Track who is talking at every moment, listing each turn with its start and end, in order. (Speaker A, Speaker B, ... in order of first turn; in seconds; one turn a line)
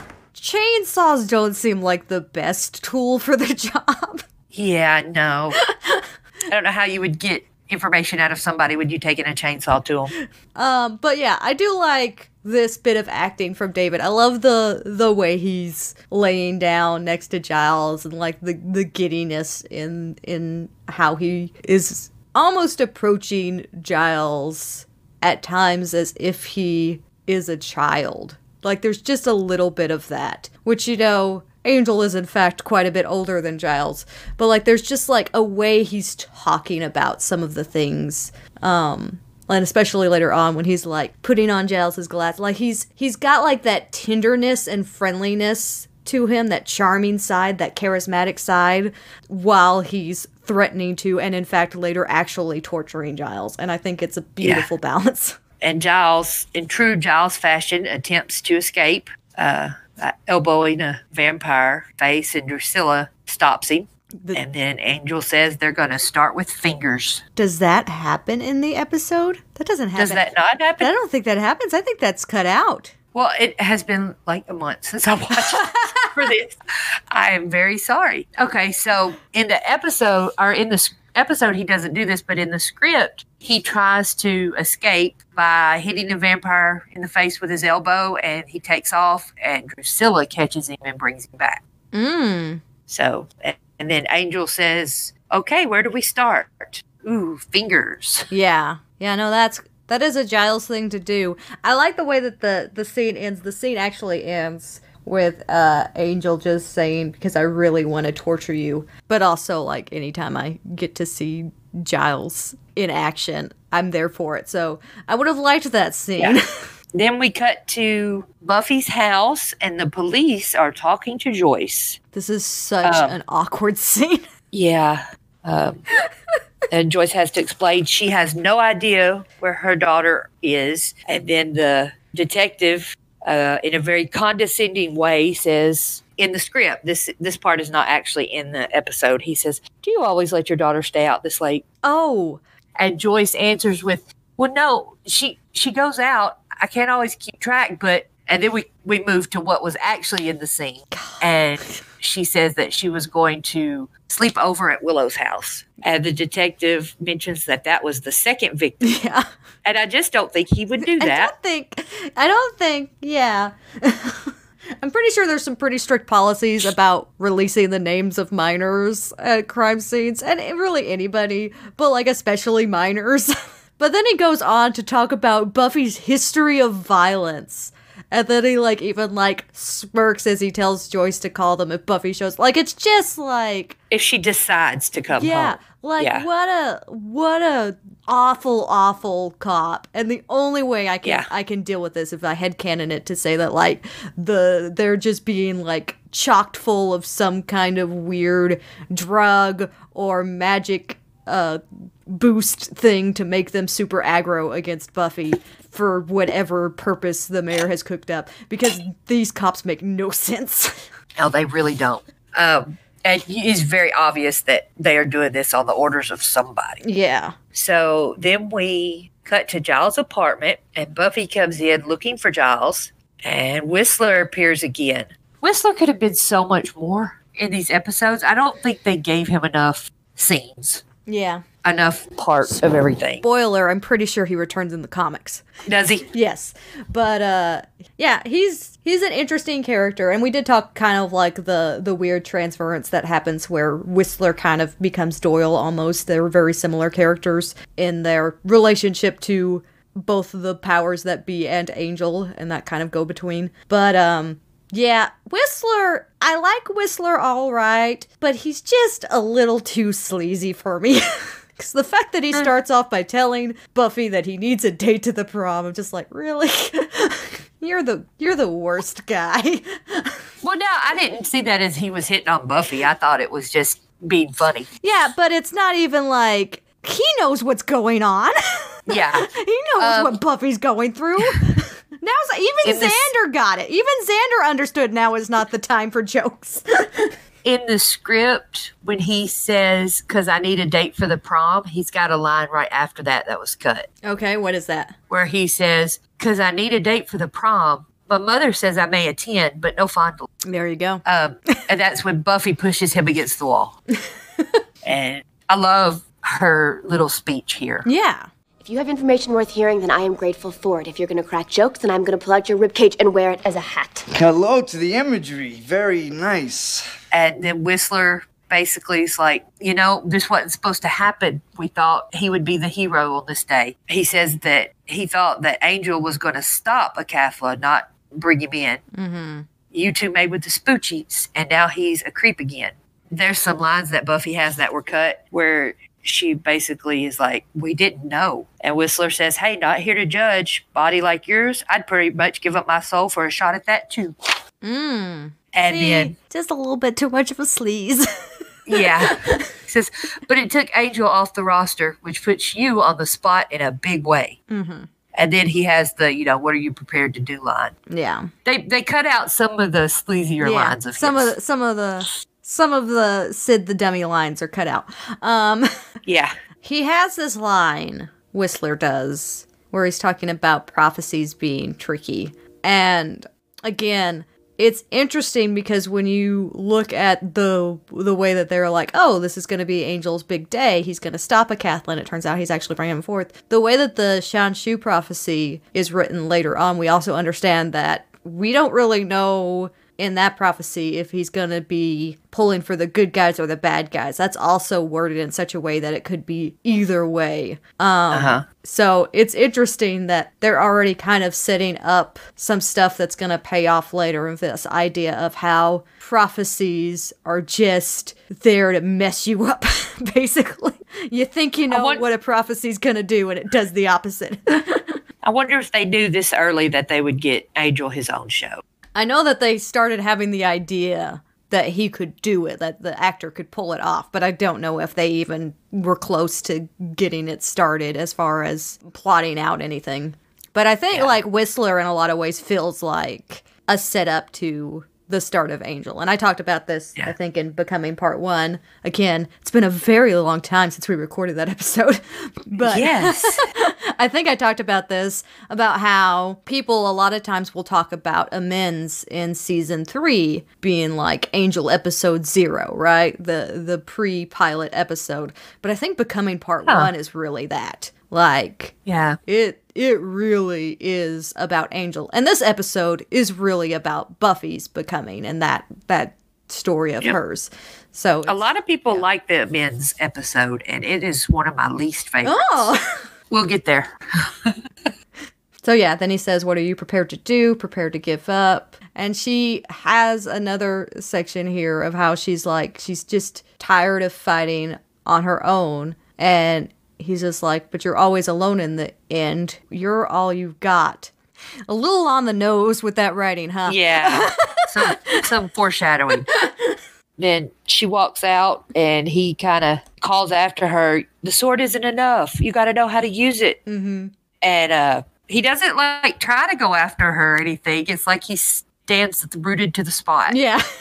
Speaker A: 0.3-4.2
Speaker B: 4.5-5.6
Speaker B: 6.5-10.1
Speaker A: 10.5-55.4
Speaker B: 54.4-54.7
Speaker B: 55.6-67.2
Speaker A: 67.3-70.2
Speaker B: 70.0-70.9
Speaker A: 70.8-72.9
Speaker B: 73.1-76.5
Speaker A: 75.6-76.0
Speaker B: 77.1-91.6
Speaker A: 91.9-92.6
Speaker B: 92.9-98.3
Speaker A: 98.3-116.5
Speaker B: 116.9-122.0
Speaker A: 122.1-124.2
Speaker B: 122.8-123.2
Speaker B: 124.5-125.8
Speaker B: 126.7-141.6
Speaker A: 141.8-142.4
Speaker B: 142.8-158.9
Speaker A: 150.9-151.7
Speaker A: 158.8-159.3
Speaker B: 159.6-161.3
Speaker A: 160.8-183.8
Speaker B: 183.9-186.3
Speaker A: 185.1-210.8
Speaker B: 211.1-216.8
Speaker A: 216.8-217.3
Speaker B: 217.5-230.8
Speaker A: 231.1-231.4
Speaker B: 231.6-233.2
Speaker A: 233.2-235.4
Speaker B: 235.6-236.1
Speaker A: 236.1-270.2
Speaker B: 270.4-274.7
Speaker A: 274.8-287.1
Speaker B: 278.9-280.1
Speaker B: 281.2-281.5
Speaker B: 282.6-283.1
Speaker B: 287.4-293.9
Speaker A: 294.0-294.9
Speaker B: 295.1-300.3
Speaker A: 300.4-301.0
Speaker B: 301.0-303.8
Speaker B: 304.8-307.9
Speaker A: 307.8-308.3
Speaker C: 308.6-314.1
Speaker D: 314.1-316.8
Speaker B: 317.1-328.8
Speaker A: 328.9-329.4
Speaker B: 329.7-344.1
Speaker A: 344.6-348.1
Speaker B: 345.5-346.1
Speaker B: 348.7-354.4
Speaker A: 354.5-354.9
Speaker B: 355.1-357.8
Speaker A: 357.9-358.3
Speaker B: 358.4-361.3
Speaker A: 360.4-365.7
Speaker B: 366.1-366.3
Speaker A: 366.6-415.0
Speaker B: 398.1-398.4
Speaker B: 411.7-412.1
Speaker B: 415.2-418.6
Speaker A: 418.9-458.8
Speaker B: 442.6-443.4
Speaker B: 456.6-456.9
Speaker B: 458.9-459.2
Speaker A: 459.3-468.4
Speaker B: 468.3-472.7
Speaker A: 472.2-472.8
Speaker B: 473.3-474.6
Speaker A: 475.6-491.1
Speaker A: 491.7-494.3
Speaker B: 493.6-496.3
Speaker A: 494.9-495.2
Speaker B: 497.2-503.6
Speaker A: 503.7-504.1
Speaker B: 504.4-510.4
Speaker A: 510.3-510.6